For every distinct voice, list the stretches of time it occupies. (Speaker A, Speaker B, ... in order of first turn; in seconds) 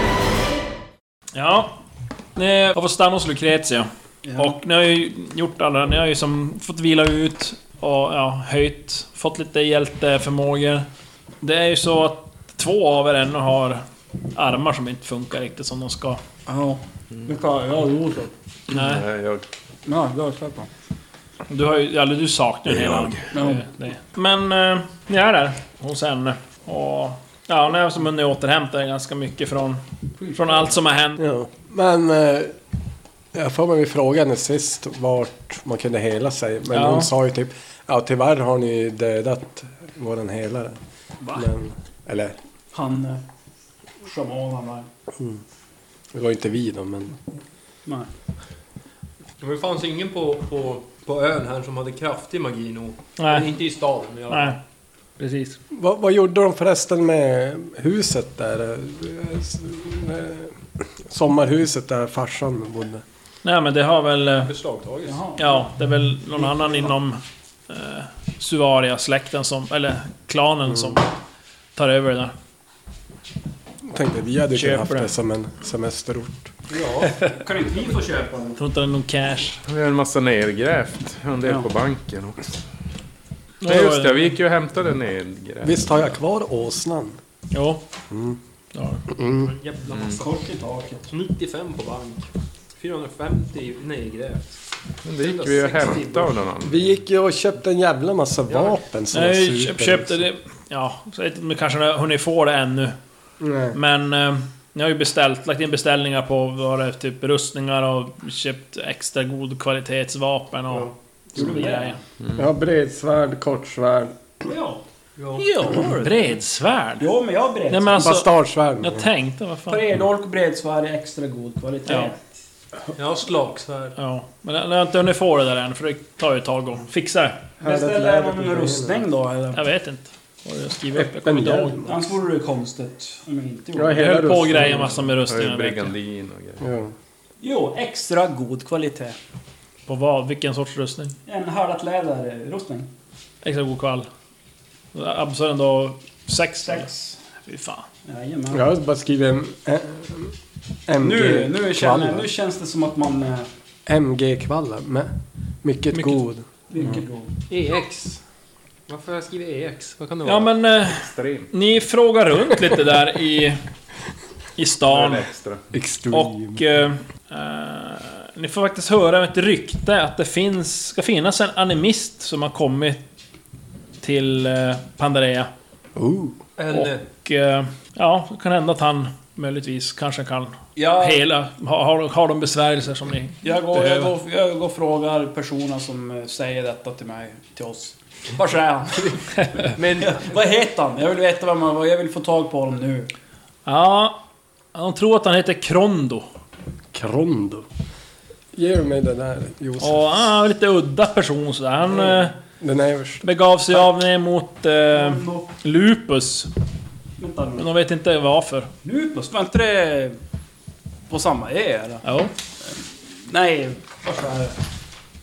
Speaker A: 1.4-1.8, 2.4-10.9, 11.4-16.2, 18.7-19.1, 21.5-29.8, 30.3-31.2, 36.7-37.1, 53.2-53.5, 54.3-54.6, 55.2-55.6, 63.4-64.5, 65.4-71.1, 71.8-72.3, 74.5-75.1, 78.6-79.6, 83.6-84.4, 87.5-87.8, 88.7-89.0, 99.1-103.0, 103.7-112.0, 115.7-117.1, 117.7-119.8, 121.9-122.1, 124.0-127.4, 129.5-131.8, 133.9-135.9, 139.9-141.2, 143.4-144.1, 144.9-146.9, 147.4-147.9, 160.2-163.6, 164.6-165.3, 166.1-173.0, 174.0-175.5, 176.7-184.1, 189.4-189.7, 193.7-194.2, 194.7-196.3, 199.8-202.4, 203.2-206.5, 207.6-208.7, 212.0-212.3
Speaker B: 4.2-4.6, 16.5-18.3, 19.9-20.7, 23.4-23.6, 42.7-43.2, 44.0-44.9, 65.1-65.7, 66.4-66.8, 77.2-78.6, 90.1-91.1, 111.4-112.0, 114.4-114.8, 115.4-116.4, 117.0-118.1, 119.7-122.3, 127.6-129.6, 131.9-134.2, 137.4-139.2, 141.3-142.9, 146.7-147.2, 148.1-148.6, 151.0-153.5, 156.7-157.3, 180.8-181.2, 183.4-189.4, 190.0-193.1, 204.9-205.5, 207.2-207.7, 208.8-210.2, 211.1-212.0, 212.7-214.6
Speaker C: 18.7-19.5, 22.7-23.2, 79.7-82.5, 83.6-86.0, 95.0-96.9, 135.2-136.6, 160.9-161.5, 164.8-165.7
Speaker D: 31.2-32.5, 33.3-40.8, 41.3-42.4, 46.1-47.2, 55.7-63.0, 70.7-71.0, 73.8-76.5, 85.6-87.2, 88.1-88.4, 89.1-89.5, 96.6-100.3, 103.4-103.8, 112.3-114.2, 117.9-119.1, 127.6-129.1, 130.9-132.2, 133.8-135.0, 136.6-136.9, 148.5-150.3, 150.9-152.3, 153.9-156.5, 165.7-166.7, 176.0-176.4, 196.9-197.7, 198.5-200.1, 202.6-203.2
Speaker E: 49.4-54.6, 64.4-65.2, 76.7-77.2, 89.3-90.3, 91.1-94.5, 95.2-96.4, 98.5-98.8, 115.2-115.4, 123.0-124.0, 157.5-158.2, 158.9-160.5, 176.6-177.0, 189.8-190.4